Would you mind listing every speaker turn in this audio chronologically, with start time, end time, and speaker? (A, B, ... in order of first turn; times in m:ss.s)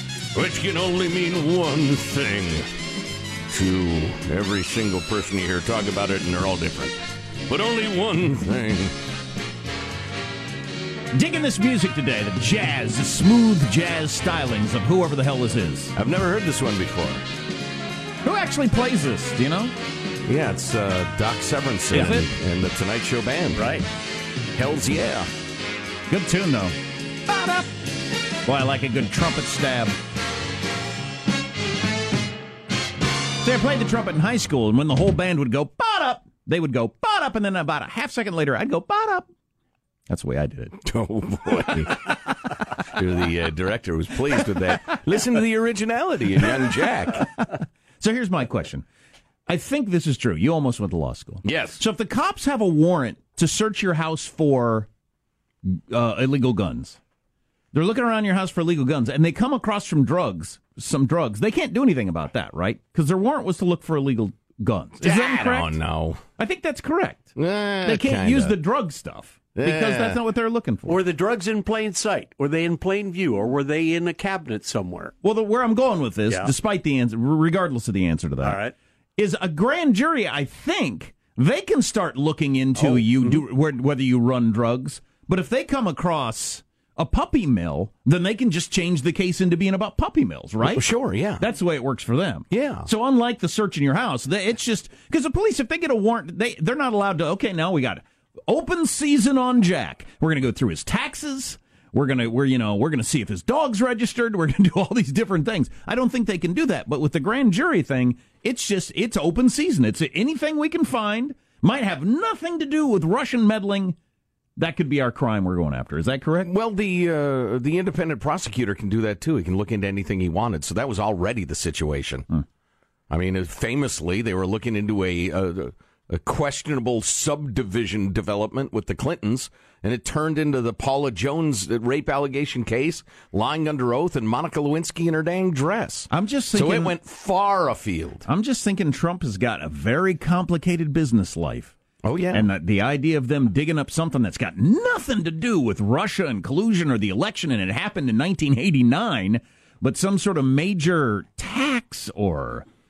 0:00.4-0:02.7 A
0:03.5-0:08.9 A
0:11.1-0:15.9 B
0:16.0-0:17.2 A
0:18.2-0:19.7 B
0:20.3-0:23.8 A
0:21.9-0:22.3 B
0:23.6-0:23.8 C
0:24.6-0:25.3 A
0:26.1-0:27.7 B
0:28.4-0:30.0 B
0:33.4-0:39.3 B
0:40.1-0:40.8 B
0:40.8-0:42.1 A
0:42.9-0:47.3 A
0:48.0-0:48.8 B
0:49.5-0:54.9 B
0:51.4-0:51.8 A
0:55.6-0:57.0 B
0:57.7-1:05.8 B
1:05.0-1:06.2 A
1:06.4-1:07.3 B
1:07.4-1:08.5 A
1:07.8-1:11.0 B
1:09.6-1:10.2 A
1:10.9-1:15.1 C
1:15.2-1:18.6 B
1:18.4-1:18.7 C
1:19.2-1:30.8 B
1:23.2-1:23.4 A
1:30.6-1:31.4 A
1:31.4-1:54.0 B
1:32.5-1:32.9 A
1:54.6-1:56.5 B
1:56.4-2:02.2 A
2:03.1-2:18.2 A
2:16.1-2:16.9 B
2:18.3-2:21.8 B
2:22.0-2:22.5 A
2:22.3-2:32.7 B